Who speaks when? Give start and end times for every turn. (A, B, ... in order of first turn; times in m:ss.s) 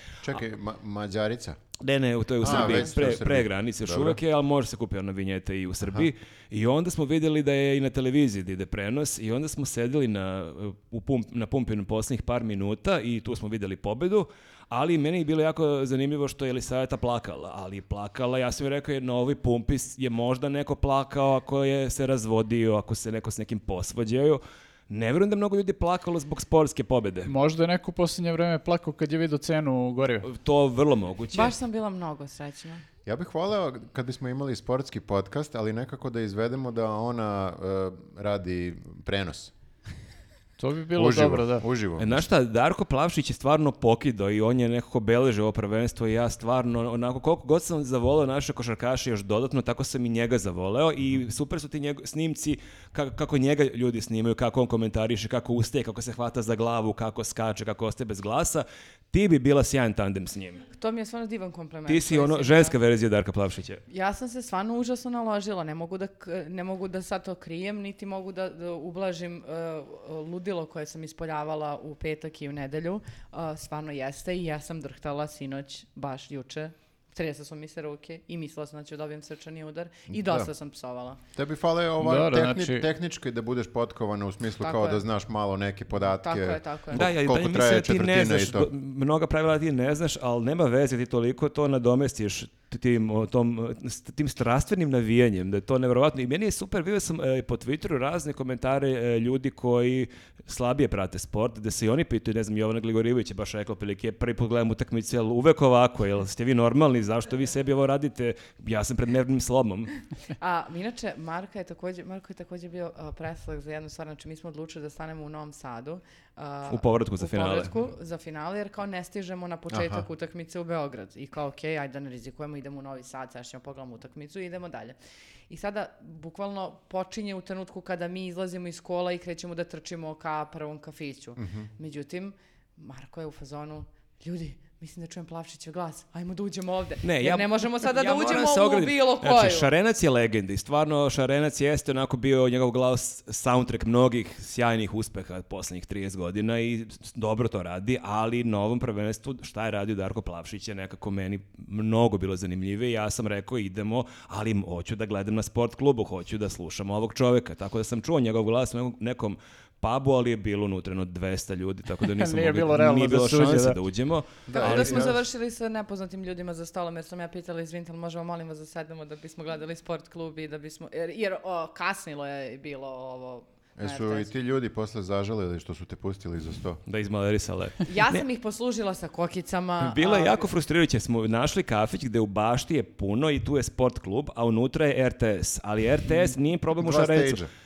0:00.2-0:01.6 A
0:01.8-0:27.3 B
0:02.4-0:04.2 A
0:05.8-0:06.1 A
0:27.2-0:30.3 C
0:30.2-0:31.5 B
0:31.3-0:32.8 D
0:33.0-0:39.5 A
0:40.6-0:41.6 C
0:40.9-0:42.2 A
0:42.0-1:00.6 B
1:00.7-1:02.8 D
1:01.9-1:03.8 B
1:03.9-1:21.2 D
1:20.1-1:20.5 A
1:21.3-1:28.7 A
1:22.0-1:22.8 C
1:24.6-1:25.0 D
1:26.2-1:27.0 D
1:26.9-1:49.9 B
1:50.4-2:05.0 D
1:56.7-1:57.7 B
1:59.7-2:00.0 A
2:05.5-2:19.7 D
2:11.4-2:11.7 A
2:17.0-2:45.1 B
2:42.0-2:43.8 C
2:44.5-2:45.2 A
2:44.5-2:54.3 D
2:53.8-2:56.8 A
2:56.8-2:58.2 B
2:57.8-3:00.5 D
2:59.8-3:07.4 B
3:06.8-3:07.5 A